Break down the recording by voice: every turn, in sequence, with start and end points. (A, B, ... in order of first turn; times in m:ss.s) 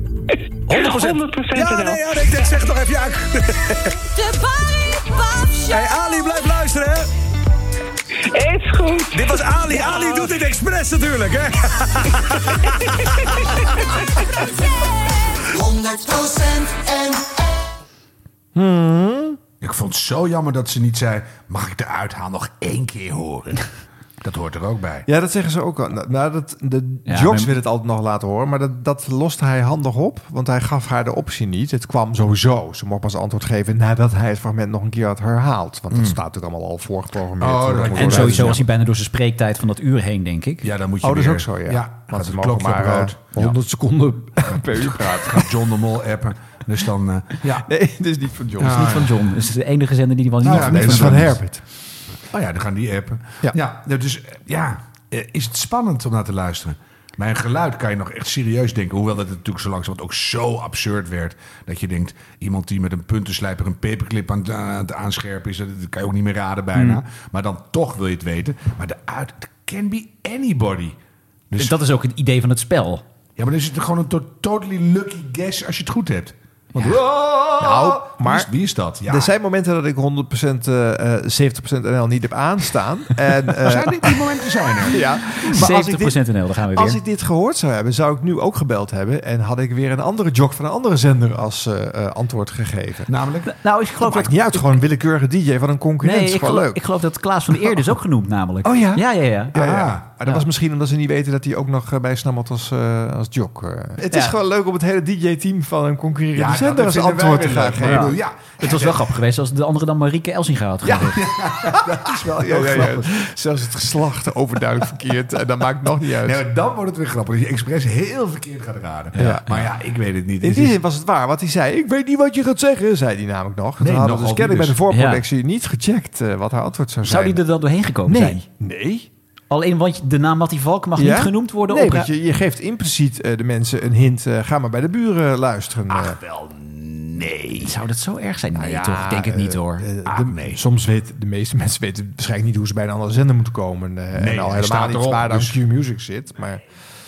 0:00.7-0:03.9 A
0:00.7-0:02.4 B
0:05.6-0:07.1 A
0:08.3-0:10.2 B
0:09.1-0:12.6 A
0:18.6-0:19.4 C
0:19.6-0:23.6 D
0:24.2-0:25.1 D
0:25.1-0:38.6 C
0:27.1-0:27.5 E
0:35.9-0:36.2 D
0:37.4-0:38.6 D
0:37.9-0:40.7 E
0:40.6-0:43.6 D
0:41.0-0:45.5 C
0:44.4-0:47.7 D
0:47.6-0:49.0 C
0:48.6-0:49.1 D
0:48.7-0:51.4 E
0:50.4-0:51.4 D
0:50.4-0:51.6 C
0:52.3-1:11.0 D
1:06.8-1:07.0 E
1:11.5-1:11.8 D
1:11.6-1:13.0 E
1:13.4-1:19.3 D
1:17.6-1:18.5 C
1:19.1-1:24.2 C
1:23.6-1:25.6 D
1:24.8-1:26.2 C
1:25.5-1:27.0 E
1:26.7-1:33.1 C
1:33.1-1:33.5 D
1:33.5-1:34.7 E
1:34.0-1:36.8 C
1:36.0-1:39.6 E
1:38.6-1:48.2 C
1:39.5-1:40.1 D
1:44.1-1:44.4 E
1:46.3-1:49.0 D
1:47.8-1:51.2 E
1:50.9-1:53.2 D
1:52.3-1:56.4 C
1:56.2-2:00.8 D
1:59.2-1:59.5 C
2:00.4-2:07.4 C
2:03.8-2:04.8 D
2:04.9-2:05.2 E
2:07.0-2:08.4 E
2:08.1-2:09.1 C
2:09.5-2:12.1 E
2:11.0-2:16.2 C
2:15.9-2:17.7 D
2:17.6-2:19.9 E
2:18.6-2:26.6 C
2:20.1-2:20.6 D
2:24.2-2:25.6 D